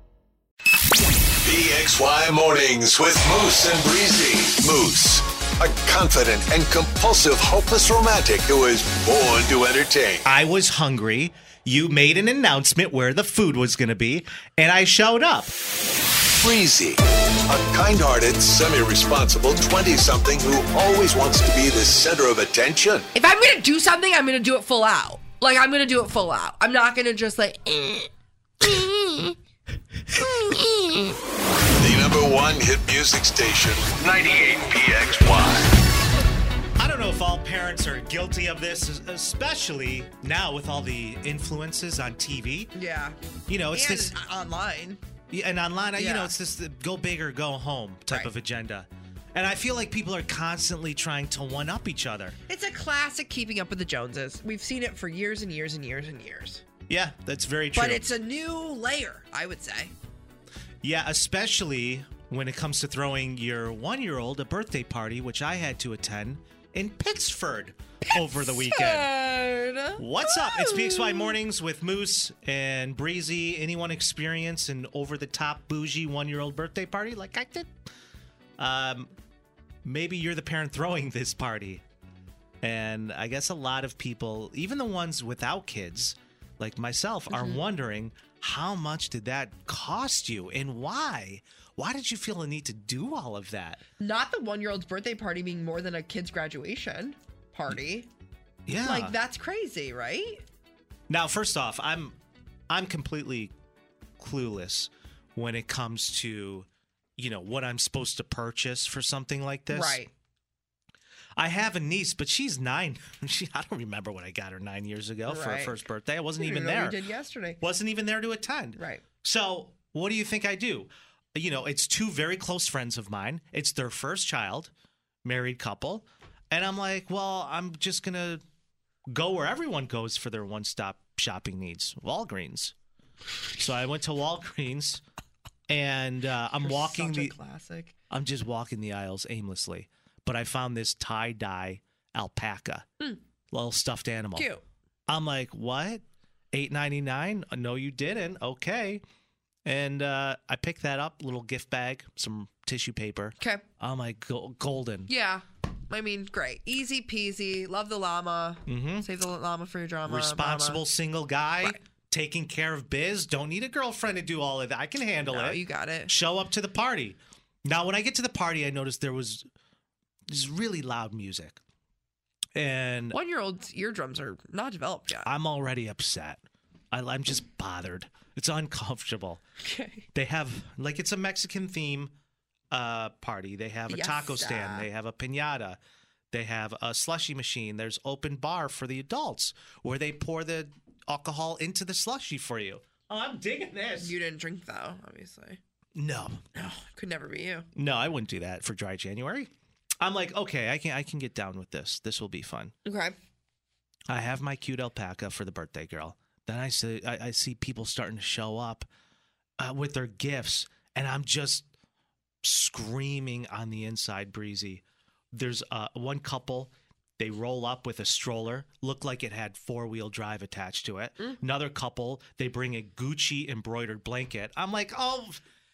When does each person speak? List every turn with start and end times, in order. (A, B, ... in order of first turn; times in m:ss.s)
0:01.4-0:10.2 A
0:10.2-0:15.5 B
0:16.3-0:23.1 A
0:23.1-0:29.4 C
0:30.1-0:31.2 C
0:31.7-0:35.8 A
0:36.8-0:42.7 B
0:42.7-0:43.2 C
0:43.5-0:44.1 B
0:43.7-0:45.0 C
0:45.3-0:52.4 B
0:46.0-0:46.3 C
0:52.5-0:56.6 C
0:56.9-0:58.0 B
0:57.7-0:59.9 C
1:00.8-1:09.1 B
1:08.0-1:11.3 C
1:10.0-1:17.7 B
1:18.6-1:19.1 B
1:19.8-1:21.8 B
1:22.6-1:33.8 B
1:27.3-1:27.6 C
1:34.0-1:38.1 C
1:38.7-1:39.1 B
1:38.7-1:40.4 C
1:41.1-1:42.1 B
1:42.7-1:43.5 B
1:44.2-1:46.6 B
1:47.2-1:50.0 B
1:49.7-1:50.1 C
1:51.4-1:57.0 B
1:55.2-1:55.8 C
1:56.4-1:57.6 C
1:57.6-2:04.7 B
1:58.8-1:59.0 C
2:05.2-2:08.4 B
2:09.1-2:12.7 B
2:13.6-2:15.0 B
2:15.7-2:17.3 B
2:16.6-2:17.9 C
2:18.1-2:22.9 B
2:23.5-2:24.5 B
2:24.4-2:24.6 C
2:25.1-2:29.0 B
2:29.6-2:35.1 B
2:35.1-2:40.8 C
2:38.7-2:39.0 B
2:40.0-2:49.4 B
2:45.3-2:46.1 C
2:50.3-2:51.6 B
2:52.5-2:53.2 B
2:53.1-2:55.3 C
2:55.2-2:56.4 B
2:56.9-2:59.4 B
2:59.6-3:00.0 C
3:00.1-3:02.1 B
3:02.7-3:05.8 B
3:03.9-3:04.8 C
3:06.3-3:14.1 B
3:14.0-3:15.6 C
3:16.0-3:16.4 B
3:16.5-3:17.7 C
3:17.8-3:19.5 B
3:20.0-3:22.7 B
3:22.8-3:23.2 C
3:24.1-3:28.9 B
3:29.6-3:31.6 B
3:32.4-3:34.8 B
3:35.3-3:45.4 B